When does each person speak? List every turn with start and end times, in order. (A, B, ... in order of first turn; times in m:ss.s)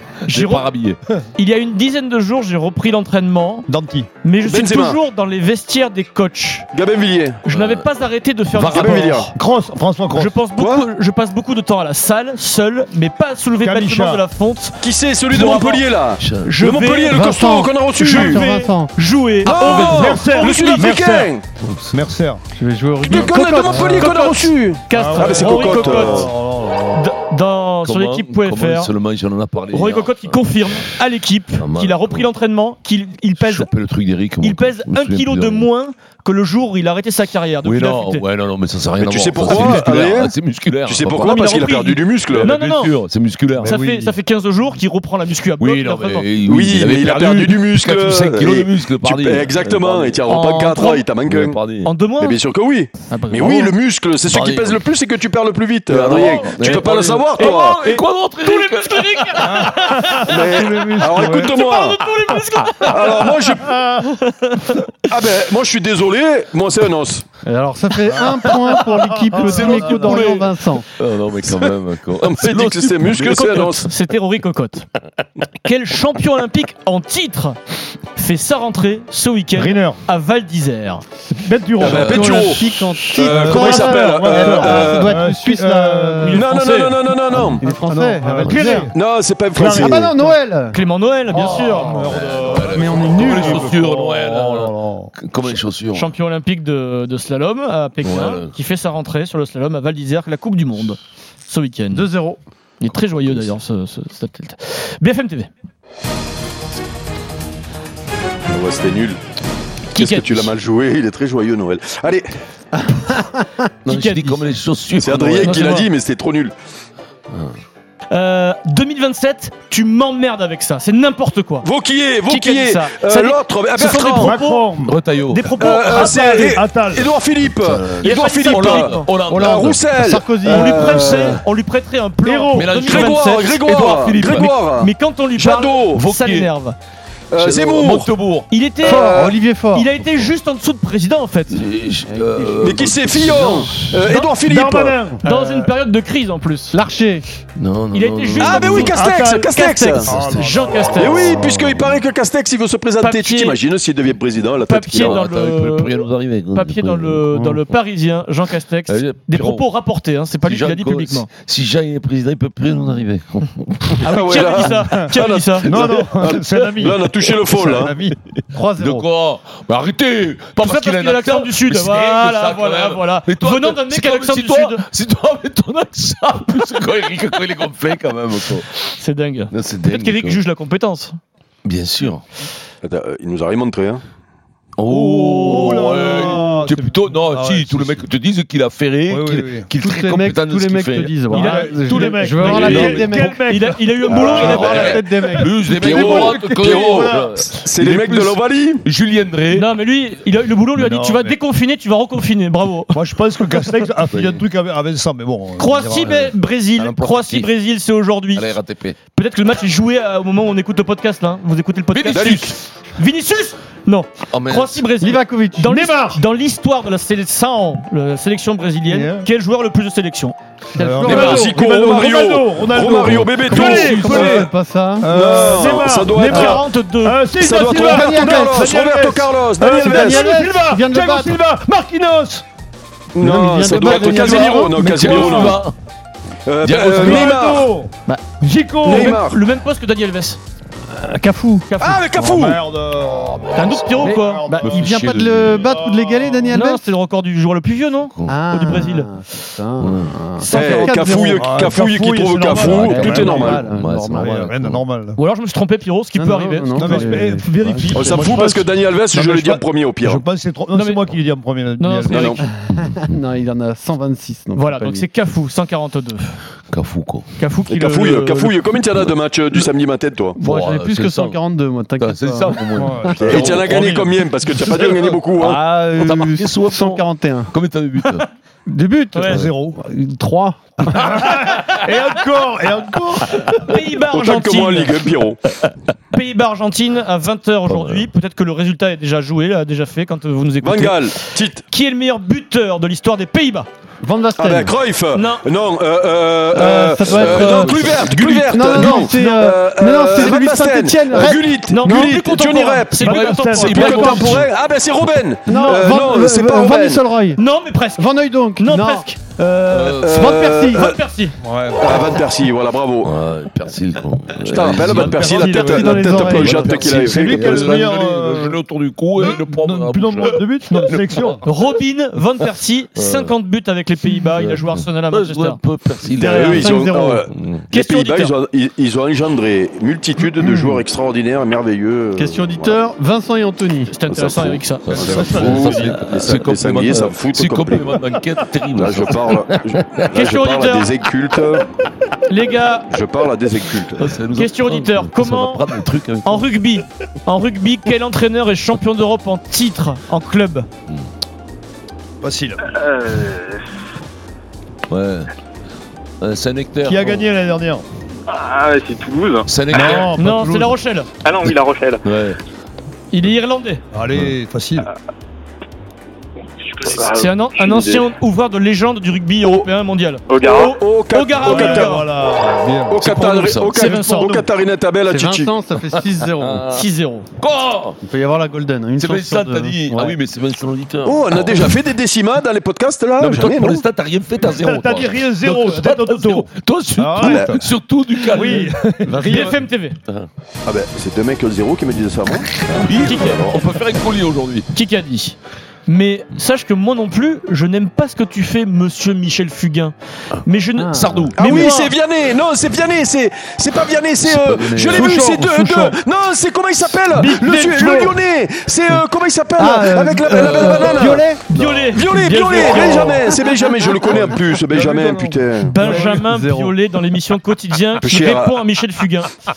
0:00.3-0:00.7 A
0:00.3-0:01.0 B
0:01.4-0:03.7 A
0:03.7-0:04.1 C
0:04.2-0:06.7 A
0:04.4-0:05.0 D
0:06.7-0:07.4 D
0:07.4-0:09.3 A
0:07.5-0:07.8 B
0:08.5-0:09.0 B
0:08.6-0:09.3 D
0:09.4-0:10.4 C
0:10.1-0:15.9 A
0:10.5-0:10.9 D
0:13.6-0:14.2 C
0:14.8-0:18.4 D
0:16.2-0:16.5 B
0:16.4-0:17.3 A
0:17.1-0:18.9 E
0:18.0-0:20.9 A
0:19.4-0:21.4 C
0:19.4-0:21.4 D
0:21.6-0:22.0 B
0:21.9-0:22.4 C
0:22.6-0:24.1 E
0:23.1-0:26.3 D
0:23.1-0:26.3 A
0:24.9-0:27.0 C
0:26.9-0:28.9 A
0:27.8-0:30.8 B
0:29.7-0:33.7 A
0:31.6-0:32.3 B
0:33.4-0:35.7 B
0:34.4-0:38.2 A
0:37.6-0:41.4 B
0:39.0-0:40.3 D
0:40.8-0:42.5 D
0:41.2-0:43.0 A
0:42.3-0:43.8 B
0:43.6-0:44.2 C
0:43.6-0:46.3 A
0:45.6-0:50.3 B
0:46.4-0:51.6 D
0:50.3-0:51.0 A
0:51.3-0:51.9 B
0:51.8-0:52.4 A
0:52.2-0:57.8 D
0:53.1-0:53.7 A
0:54.3-0:54.8 B
0:55.9-0:59.7 B
0:56.2-1:00.4 A
0:59.5-1:01.6 C
1:00.2-1:02.0 D
1:01.3-1:03.5 A
1:02.8-1:03.8 D
1:03.3-1:04.0 C
1:04.0-1:04.8 A
1:05.1-1:07.3 D
1:07.4-1:10.9 E
1:08.1-1:10.3 C
1:08.2-1:13.7 B
1:11.5-1:13.9 D
1:13.2-1:14.9 A
1:15.6-1:17.6 A
1:18.1-1:21.0 A
1:19.6-1:20.0 C
1:21.3-1:22.6 C
1:21.8-1:25.2 D
1:21.8-1:26.4 E
1:23.2-1:26.3 C
1:26.2-1:27.0 A
1:26.3-1:27.7 D
1:27.4-1:28.9 E
1:27.6-1:29.0 C
1:28.5-1:28.7 B
1:28.8-1:30.1 D
1:29.5-1:30.4 C
1:29.6-1:30.8 E
1:30.7-1:32.1 A
1:31.3-1:35.1 C
1:31.4-1:36.1 B
1:32.6-1:33.8 E
1:35.9-1:42.1 A
1:38.0-1:38.5 B
1:41.9-1:42.4 E
1:42.8-1:45.5 A
1:48.5-1:49.2 D
1:49.9-1:52.3 D
1:49.9-1:50.5 A
1:52.8-1:53.5 E
1:53.9-1:54.5 A
1:53.9-1:55.8 B
1:55.0-1:56.5 D
1:55.4-1:55.9 A
1:58.1-2:01.7 A
2:01.6-2:04.3 D
2:02.2-2:04.7 A
2:04.2-2:05.0 C
2:04.8-2:05.5 B
2:05.3-2:06.6 A
2:05.6-2:11.4 D
2:05.8-2:07.1 C
2:07.4-2:09.9 B
2:08.0-2:09.1 A
2:09.2-2:11.1 E
2:10.4-2:13.6 A
2:12.2-2:12.8 C
2:12.5-2:14.7 B
2:12.8-2:16.0 D
2:14.3-2:16.8 A
2:16.0-2:16.5 B
2:17.3-2:18.1 D
2:17.4-2:18.5 B
2:18.5-2:21.6 A
2:18.8-2:19.4 D
2:18.8-2:19.9 E
2:21.5-2:24.0 B
2:22.1-2:22.6 E
2:22.6-2:25.0 D
2:24.1-2:24.3 A
2:24.4-2:25.7 C
2:25.2-2:26.8 A
2:26.7-2:27.3 E
2:27.6-2:29.0 B
2:27.9-2:31.4 A
2:28.4-2:30.2 D
2:28.9-2:29.5 C
2:30.0-2:31.9 C
2:30.9-2:35.2 D
2:33.0-2:33.6 A
2:34.6-2:41.3 A
2:35.0-2:37.5 B
2:38.9-2:39.7 B
2:40.4-2:44.0 B
2:44.0-2:48.0 D
2:44.0-2:45.7 A
2:45.6-2:48.2 C
2:48.5-2:49.1 E
2:48.8-2:58.7 B
2:50.6-2:54.8 A
2:58.9-3:01.2 A
2:59.5-3:00.4 B
3:01.6-3:02.2 B
3:02.8-3:04.0 D
3:04.8-3:11.3 B
3:04.9-3:08.0 C
3:05.4-3:06.1 A
3:09.1-3:09.7 C
3:09.8-3:13.4 E
3:11.3-3:14.7 C
3:11.3-3:12.2 A
3:12.3-3:13.4 B
3:13.4-3:15.0 A
3:14.1-3:14.6 D
3:14.3-3:19.7 B
3:14.4-3:15.6 E
3:15.3-3:17.3 C
3:15.7-3:18.8 D
3:19.5-3:23.0 A
3:20.8-3:21.4 C
3:22.9-3:26.2 C
3:24.1-3:24.4 B
3:25.6-3:28.5 A
3:26.1-3:27.5 B
3:28.3-3:29.0 B
3:29.1-3:41.6 A
3:31.9-3:32.5 B
3:32.1-3:32.5 D
3:34.3-3:34.9 B
3:35.0-3:35.7 E
3:35.6-3:36.2 C
3:38.9-3:39.3 C
3:40.8-3:44.5 C
3:41.0-3:44.5 D
3:43.4-3:45.1 E
3:43.6-3:44.3 A
3:45.0-3:52.4 C
3:45.1-3:46.6 D
3:45.6-3:47.2 A
3:47.4-3:50.3 D
3:47.6-3:48.7 E
3:49.7-3:51.4 E
3:53.1-3:55.6 D
3:53.2-3:55.6 E
3:53.7-3:55.8 B
3:55.2-3:55.6 C
3:56.5-3:57.7 D
3:56.6-3:57.4 B
3:56.9-3:59.2 C
3:58.8-3:59.4 D
3:58.8-4:00.4 A
4:00.9-4:01.7 E
4:01.7-4:02.0 A
4:01.8-4:02.6 D
4:02.1-4:03.5 C
4:03.0-4:05.7 B
4:03.6-4:04.5 A
4:04.0-4:06.9 E
4:04.1-4:04.9 C
4:05.5-4:06.6 C
4:06.5-4:09.1 A
4:08.1-4:08.4 B
4:08.3-4:11.5 E
4:09.8-4:10.2 B
4:10.4-4:10.9 A
4:10.5-4:13.7 D
4:11.4-4:15.2 C
4:12.5-4:14.8 B
4:12.9-4:14.5 E
4:15.2-4:17.3 A
4:16.2-4:18.0 E
4:16.8-4:22.4 C
4:17.9-4:20.2 D
4:20.7-4:21.2 A
4:21.8-4:22.5 A
4:22.1-4:22.4 D
4:22.7-4:25.1 E
4:24.6-4:26.4 A
4:26.7-4:27.3 B
4:27.4-4:28.6 A
4:27.7-4:30.4 D
4:30.4-4:33.2 E
4:30.4-4:33.8 B
4:32.8-4:35.2 C
4:33.2-4:35.6 D
4:35.4-4:37.5 E
4:35.4-4:38.3 B
4:38.7-4:41.2 E
4:39.1-4:39.5 A
4:39.3-4:39.8 C
4:41.0-4:43.5 C
4:43.5-4:45.1 A
4:43.9-4:45.4 D
4:46.1-4:53.7 A
4:47.7-4:48.1 B
4:50.6-4:51.6 D
4:54.0-4:54.8 E
4:54.4-5:07.1 D
4:55.1-4:55.4 A
4:56.5-5:02.2 E
4:57.1-4:58.3 B
4:58.3-4:59.3 A
5:01.2-5:04.4 A
5:03.0-5:04.3 C
5:03.0-5:04.5 B
5:05.5-5:07.4 E
5:05.5-5:05.8 A
5:07.3-5:09.2 A
5:08.0-5:10.9 E
5:09.7-5:10.3 B
5:09.9-5:11.0 D
5:10.2-5:11.4 A
5:11.4-5:12.1 C
5:11.8-5:13.1 D
5:13.0-5:15.5 B
5:14.4-5:17.9 D
5:14.7-5:18.6 C
5:15.5-5:17.3 E
5:16.1-5:21.4 B
5:19.2-5:21.5 C
5:21.4-5:25.6 A
5:23.0-5:23.3 B
5:24.4-5:27.6 B
5:26.1-5:27.3 E
5:26.3-5:32.8 D
5:27.7-5:28.3 A
5:30.3-5:30.8 E
5:32.2-5:33.9 E
5:33.9-5:35.3 A
5:34.1-5:38.0 D
5:34.8-5:40.1 B
5:35.0-5:36.0 C
5:38.8-5:41.7 D
5:40.1-5:40.9 A
5:42.3-5:42.9 A
5:42.9-5:44.1 D
5:44.0-5:46.6 B
5:44.3-5:45.7 A
5:46.2-5:50.7 A
5:52.2-5:52.6 C
5:52.8-5:53.6 F
5:54.9-5:55.3 B
5:56.2-5:57.3 B
5:56.8-5:57.8 C
5:58.3-5:59.5 F
5:59.5-6:00.4 B
5:59.7-6:00.8 C
6:00.1-6:01.1 A
6:01.2-6:02.0 F
6:01.4-6:02.4 B
6:03.1-6:03.8 A
6:03.9-6:04.9 C
6:06.7-6:07.8 F
6:07.0-6:12.1 A
6:10.3-6:10.6 F
6:10.4-6:12.0 D
6:11.3-6:13.1 C
6:12.9-6:15.5 D
6:13.0-6:14.0 B
6:13.7-6:14.3 A
6:13.8-6:14.4 C
6:15.0-6:16.7 E
6:15.9-6:16.9 B
6:16.7-6:17.3 A
6:17.4-6:18.0 B
6:18.0-6:20.2 E
6:19.0-6:21.8 B
6:21.0-6:23.8 D
6:23.2-6:28.8 B
6:24.4-6:27.7 C
6:27.2-6:27.6 D
6:28.2-6:29.6 C
6:28.5-6:29.6 E
6:29.2-6:30.0 A
6:30.7-6:32.5 D
6:32.6-6:34.7 B
6:33.0-6:33.5 A
6:34.7-6:41.9 A
6:40.8-6:41.3 E
6:40.9-6:41.5 B
6:41.4-6:51.3 D
6:44.2-6:46.0 E
6:47.1-6:48.1 E
6:47.4-6:48.2 C
6:49.6-6:51.4 E
6:50.4-6:50.8 B
6:50.6-6:51.2 C
6:51.5-6:53.3 A
6:51.9-6:56.1 D
6:54.0-6:56.2 C
6:54.1-6:54.4 E
6:55.7-6:59.3 A
6:55.8-6:56.8 E
6:58.0-6:58.6 D